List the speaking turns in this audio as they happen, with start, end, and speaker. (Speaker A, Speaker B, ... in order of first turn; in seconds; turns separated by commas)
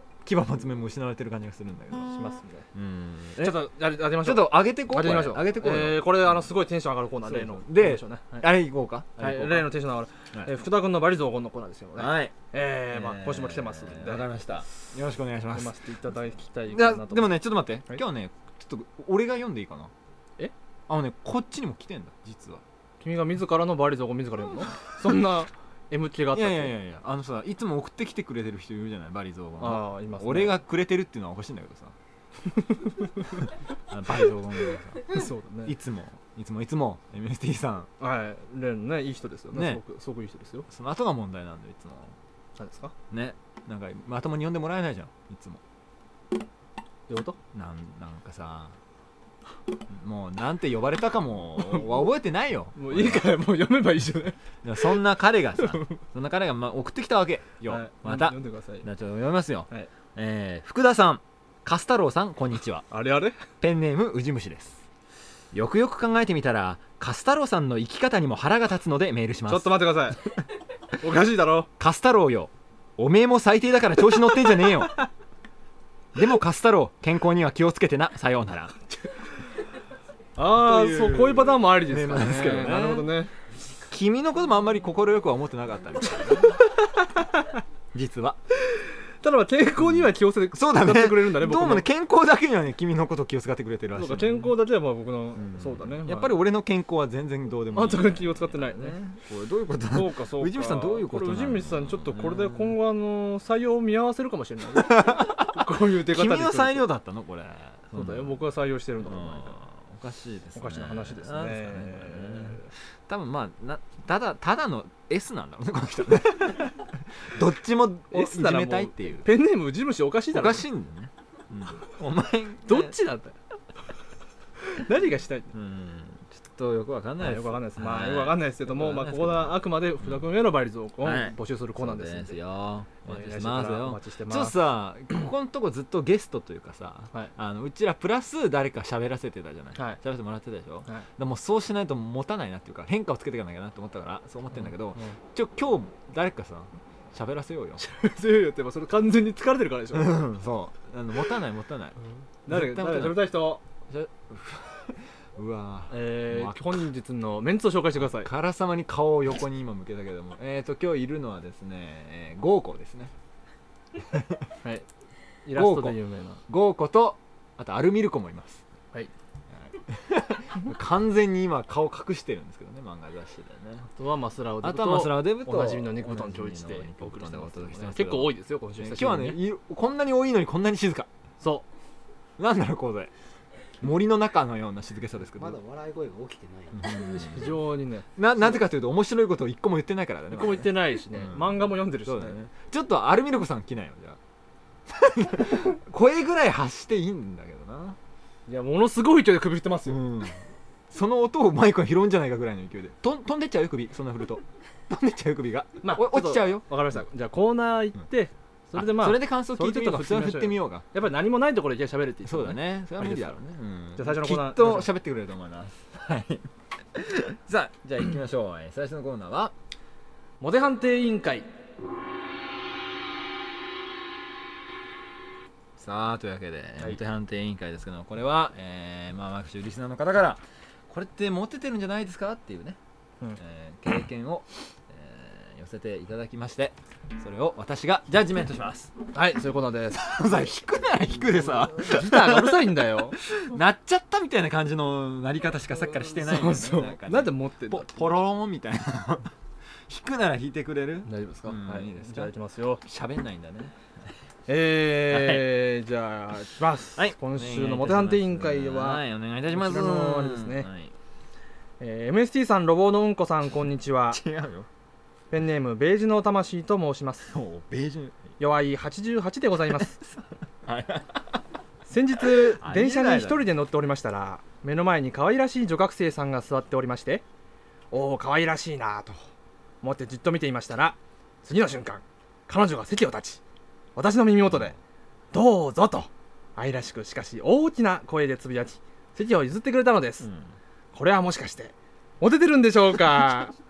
Speaker A: 0.2-2.1, Speaker B: 2.1-2.7, Speaker A: 2.7-3.6, Speaker B: 3.4-8.5, Speaker A: 4.2-6.0, Speaker A: 7.2-9.7, Speaker B: 9.2-14.3, Speaker A: 12.0-12.3, Speaker A: 12.9-15.7, Speaker B: 15.5-17.3, Speaker A: 16.7-19.9, Speaker A: 20.9-22.6, Speaker B: 23.0-26.8, Speaker A: 26.3-32.0, Speaker B: 29.6-30.6, Speaker B: 32.6-33.2, Speaker A: 33.4-37.9, Speaker B: 35.1-35.8, Speaker B: 38.0-40.7, Speaker A: 39.5-39.8, Speaker A: 40.7-42.2, Speaker B: 42.6-42.9, Speaker A: 43.1-45.6, Speaker B: 47.1-47.4, Speaker A: 47.5-48.8, Speaker A: 49.9-53.4, Speaker B: 51.6-52.1, Speaker B: 52.8-54.4, Speaker A: 54.6-62.9, Speaker B: 55.6-56.0, Speaker B: 57.6-58.9, Speaker B: 62.9-63.4, Speaker A: 63.6-64.8, Speaker A: 65.5-69.8, Speaker B: 69.5-70.2, Speaker B: 70.9-71.7, Speaker A: 71.8-75.0, Speaker A: 76.2-78.8, Speaker B: 80.4-83.3, Speaker A: 80.4-83.1, Speaker A: 83.9-87.0, Speaker A: 87.9-88.4, Speaker B: 88.7-91.9, Speaker A: 89.8-94.5, Speaker B: 94.0-96.4, Speaker A: 95.4-102.8, Speaker B: 97.7-99.1, Speaker B: 99.9-106.9, Speaker A: 104.8-108.4, Speaker B: 107.9-109.6, Speaker A: 109.0-119.3, Speaker B: 110.5-112.7, Speaker B: 118.1-120.7, Speaker A: 120.3-123.0, Speaker B: 122.7-123.3, Speaker B: 124.7-125.5, Speaker A: 125.5-130.2, Speaker B: 127.2-132.4, Speaker A: 131.0-147.8, Speaker B: 133.1-134.6, Speaker B: 144.6-145.2, Speaker B: 147.8-150.2, Speaker A: 149.9-152.0, Speaker B: 152.5-153.6, Speaker A: 152.5-153.3, Speaker A: 153.9-156.9, Speaker B: 155.9-158.3, Speaker A: 157.9-163.1, Speaker A: 164.1-164.4, Speaker B: 165.4-166.4, Speaker A: 165.6-168.6, Speaker A: 169.6-173.9, Speaker B: 173.9-179.4, Speaker A: 174.6-181.1, Speaker B: 181.4-181.7, Speaker A: 182.4-183.1, Speaker A: 183.8-185.6, Speaker C: 185.3-187.6, Speaker A: 186.7-187.5, Speaker B: 187.1-188.1, Speaker A: 188.2-194.2, Speaker B: 190.3-192.4, Speaker A: 194.9-198.0, Speaker B: 198.5-200.0, Speaker A: 199.9-206.7, Speaker B: 205.8-213.3, Speaker A: 208.8-210.8, Speaker A: 212.3-219.5, Speaker B: 214.0-214.9, Speaker B: 220.4-221.5, Speaker A: 225.8-232.8, Speaker A: 233.4-238.9, Speaker B: 239.1-240.1, Speaker A: 239.9-249.3, Speaker B: 241.8-243.2, Speaker B: 246.3-247.9, Speaker A: 249.9-252.3, Speaker B: 251.1-252.8, Speaker A: 252.8-253.7, Speaker B: 254.5-260.7, Speaker A: 255.1-255.5, Speaker A: 257.0-260.9, Speaker B: 261.8-264.2, Speaker A: 264.1-264.7, Speaker B: 265.3-267.4, Speaker A: 267.3-268.3, Speaker B: 268.4-270.0, Speaker A: 270.0-271.4, Speaker B: 271.9-277.2, Speaker A: 272.4-273.4, Speaker B: 277.9-279.2, Speaker B: 279.8-283.4, Speaker B: 284.0-284.8, Speaker A: 284.5-284.8, Speaker B: 285.3-290.3, Speaker A: 290.2-290.5, Speaker B: 290.9-293.6